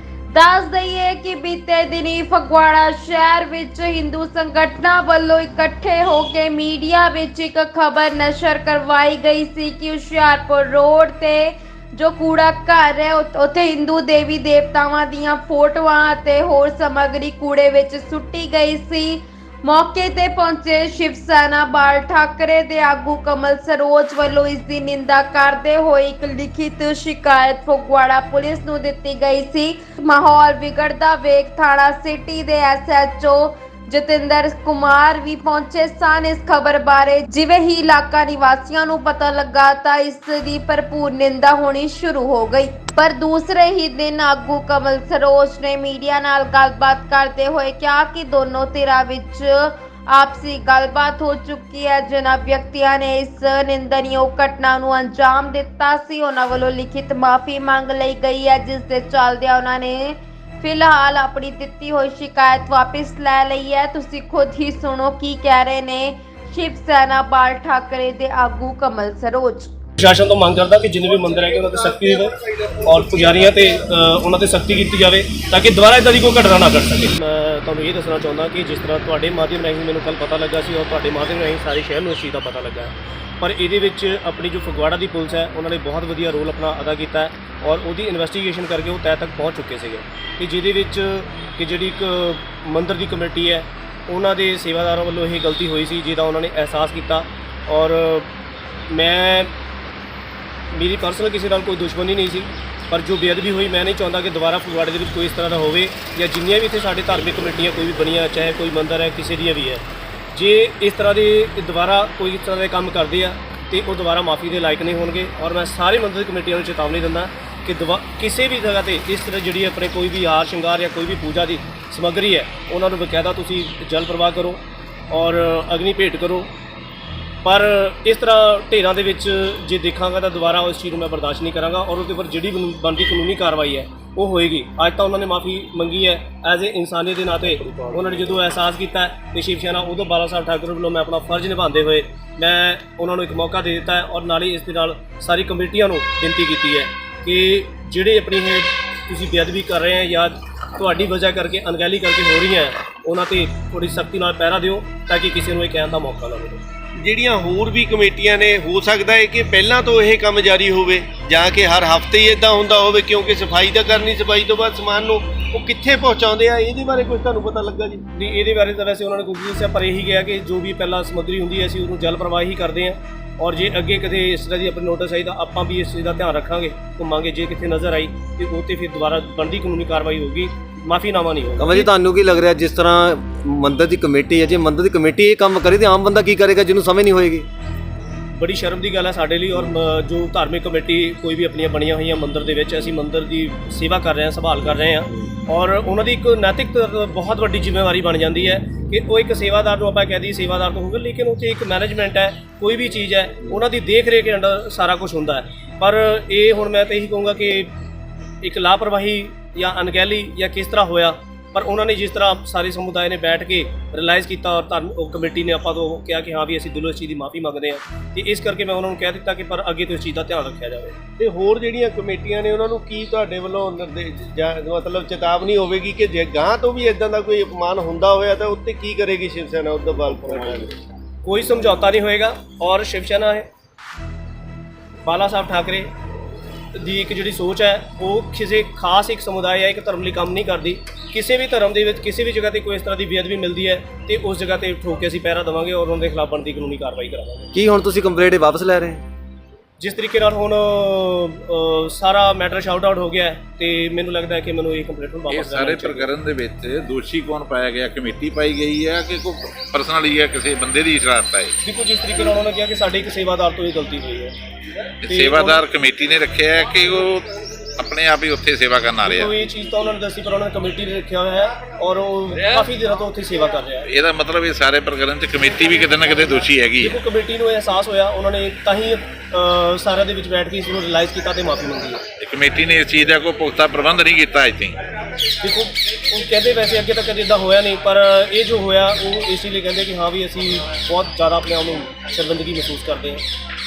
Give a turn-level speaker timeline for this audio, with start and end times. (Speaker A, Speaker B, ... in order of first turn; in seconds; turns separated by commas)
Speaker A: 0.3-69.7, Speaker B: 70.0-98.3, Speaker B: 98.9-99.5, Speaker B: 100.7-126.5, Speaker B: 127.4-156.6, Speaker C: 157.0-168.0, Speaker B: 168.1-181.9, Speaker D: 181.6-187.5, Speaker B: 188.3-207.7, Speaker B: 208.4-221.0, Speaker C: 221.2-230.8, Speaker B: 231.2-233.5, Speaker B: 235.1-235.9, Speaker B: 236.8-247.5, Speaker D: 247.5-249.0, Speaker B: 249.8-256.1, Speaker E: 255.3-261.5, Speaker B: 261.6-264.4, Speaker E: 265.0-269.3, Speaker B: 265.1-265.6, Speaker B: 269.0-273.9, Speaker E: 273.9-277.0, Speaker B: 276.8-282.0, Speaker E: 282.2-284.8, Speaker B: 285.4-293.2